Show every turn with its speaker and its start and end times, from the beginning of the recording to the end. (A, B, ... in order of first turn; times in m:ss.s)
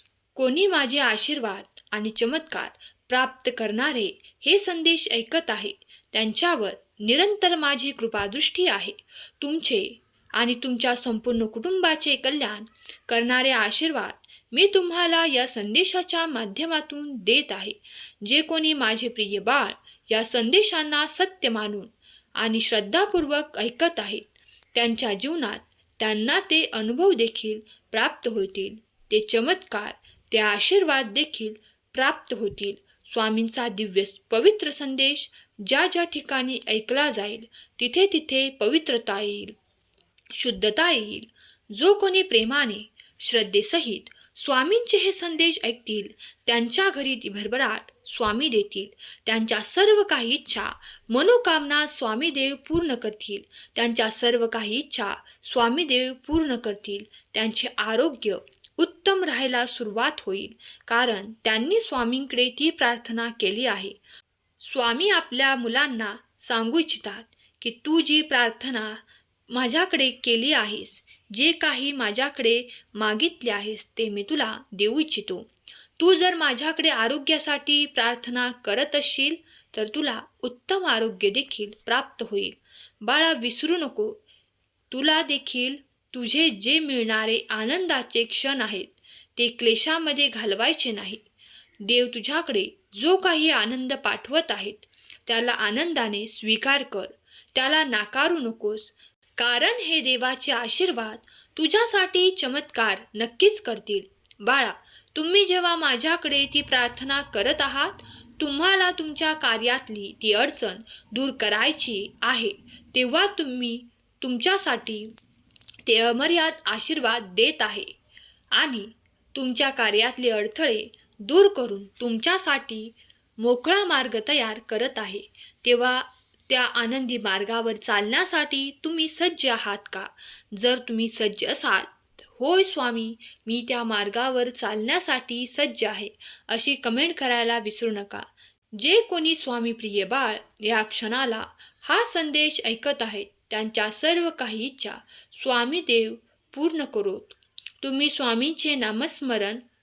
0:00.3-0:39.5 A
0:40.4-1:04.0 A
1:04.6-1:24.2 A
1:24.9-1:31.2 A
1:31.8-1:55.1 A
1:55.8-1:57.9 A
1:58.5-2:29.6 A